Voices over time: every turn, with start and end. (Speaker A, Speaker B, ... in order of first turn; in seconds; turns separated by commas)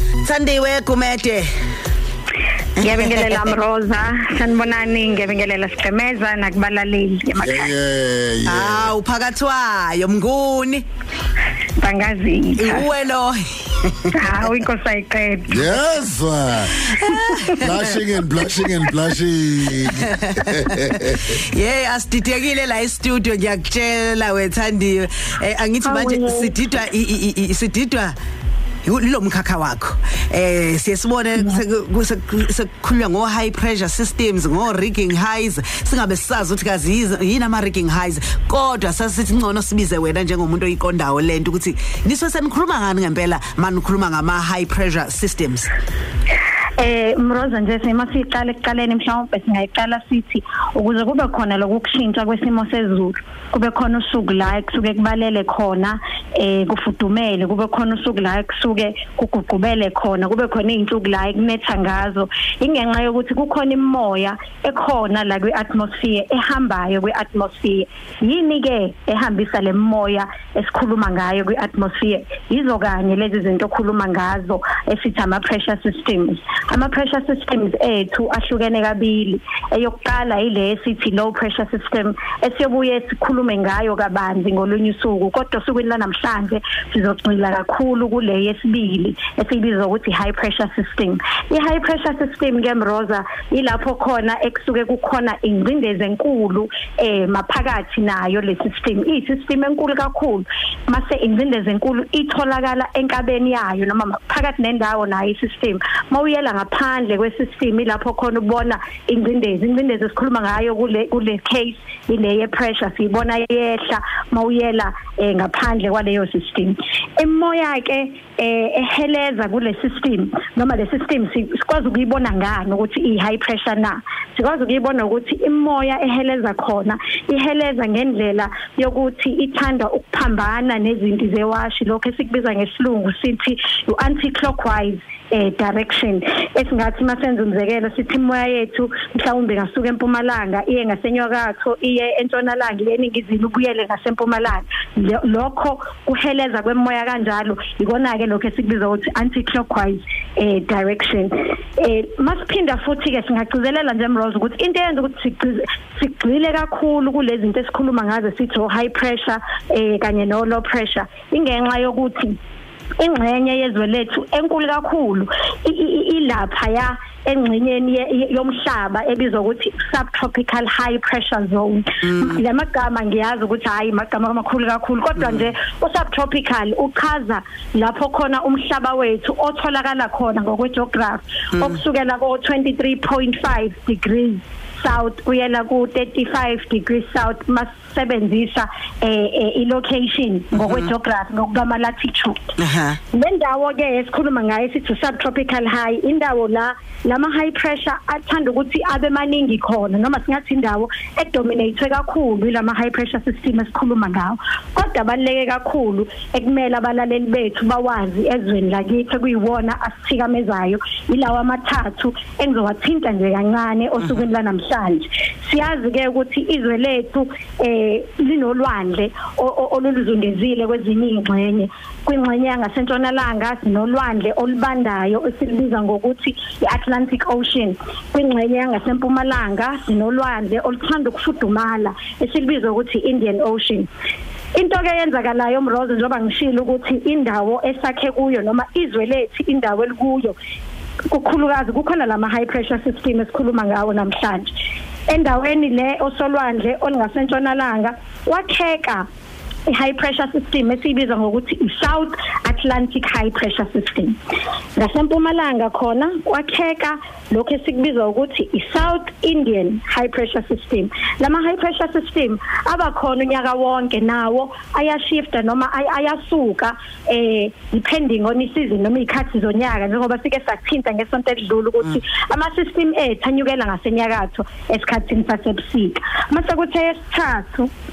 Speaker A: 0.2-1.5, Speaker B: 2.8-7.7, Speaker A: 2.8-3.5, Speaker C: 7.4-8.9, Speaker A: 8.4-10.8, Speaker B: 11.8-12.9, Speaker A: 12.6-14.2, Speaker B: 14.1-15.7, Speaker C: 15.5-16.9, Speaker A: 16.9-17.8, Speaker B: 17.1-17.5, Speaker C: 17.6-21.3, Speaker A: 19.8-28.1, Speaker B: 25.8-26.5, Speaker A: 28.8-45.7, Speaker B: 46.8-162.4, Speaker B: 163.0-192.6, Speaker A: 190.5-190.9, Speaker A: 192.6-193.0, Speaker B: 193.1-233.9, Speaker B: 234.5-240.3, Speaker B: 241.1-244.5, Speaker B: 245.1-249.0, Speaker B: 249.7-254.2, Speaker B: 254.8-277.7